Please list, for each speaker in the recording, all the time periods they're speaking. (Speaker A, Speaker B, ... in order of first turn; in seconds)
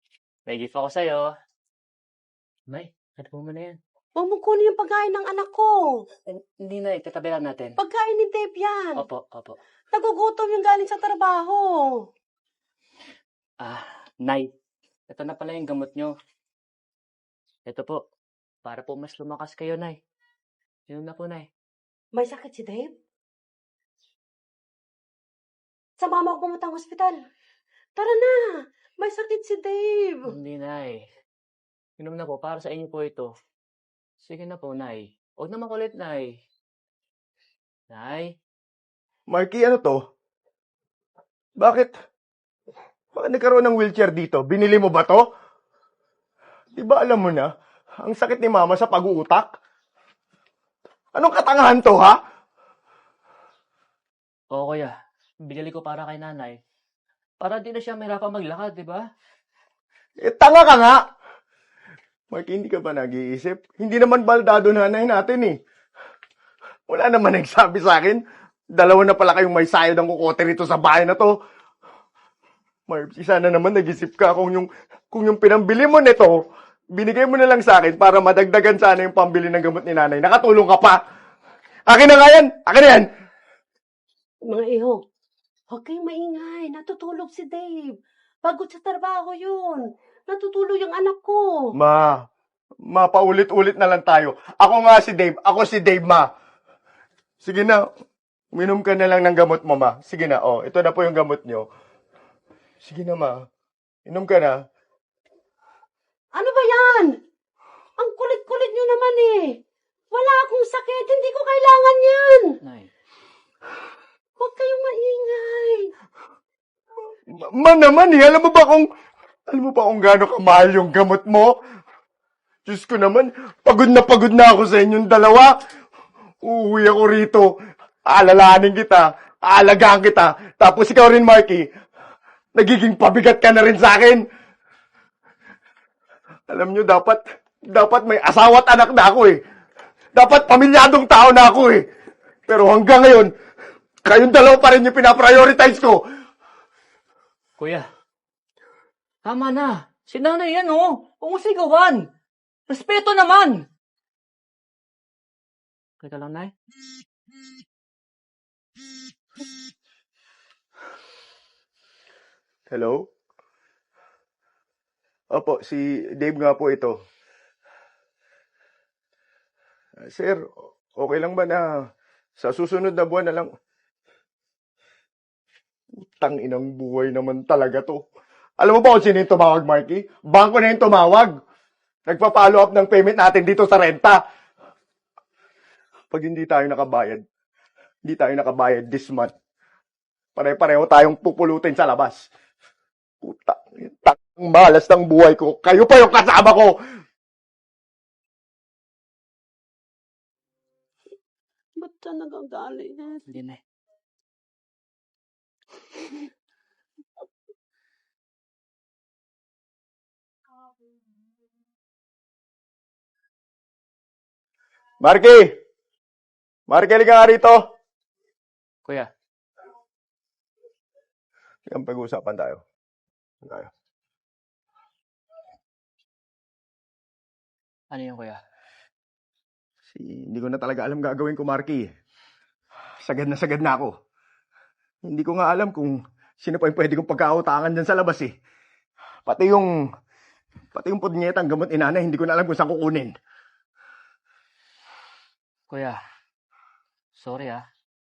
Speaker A: 0.5-1.3, 2.7-3.8, 6.3-7.8, 8.9-9.6, 13.6-14.5, 15.1-16.1, 17.6-18.0, 18.6-20.0, 20.9-21.5, 30.3-31.1, 32.0-33.3, 34.2-36.4, 37.9-38.3, 54.5-54.9, 55.4-56.6, 57.4-59.0, 112.6-112.9, 147.6-147.9, 149.2-152.1, 152.7-153.6, 156.0-156.5, 203.3-203.6, 227.9-228.4, 245.7-246.0, 247.2-247.6
Speaker B: 4.2-6.0, 7.8-9.0, 9.9-12.0, 22.1-22.9, 26.0-27.2, 27.9-30.3, 84.5-85.0, 85.7-87.9, 88.4-91.4, 106.3-107.1, 108.0-109.5, 110.1-112.5, 114.4-115.9, 201.8-203.2
Speaker C: 39.3-40.0, 41.6-41.9, 43.1-45.2, 46.8-47.5, 48.0-49.5, 51.1-52.2, 60.2-61.0, 62.3-65.5, 66.9-68.2, 68.7-71.3, 72.9-76.3, 76.9-81.0, 81.9-83.1, 91.7-92.2, 92.9-96.3, 97.4-97.8, 98.5-101.7, 102.8-103.4, 104.1-104.6, 117.3-118.8, 119.5-121.5, 122.7-125.5, 126.4-127.5, 128.1-131.6, 132.5-134.2, 136.5-139.4, 140.1-141.8, 142.5-143.3, 144.0-146.0, 162.7-163.1, 165.3-166.9, 170.0-170.4, 170.9-171.7, 172.4-173.5, 176.0-178.0, 178.6-181.3, 182.1-184.2, 186.1-187.2, 188.0-189.3, 190.3-192.3, 193.2-196.7, 215.0-215.5, 216.7-217.6, 221.7-222.6, 223.4-223.7, 229.9-231.9, 233.0-233.9, 235.0-238.3, 239.2-239.7, 240.7-243.1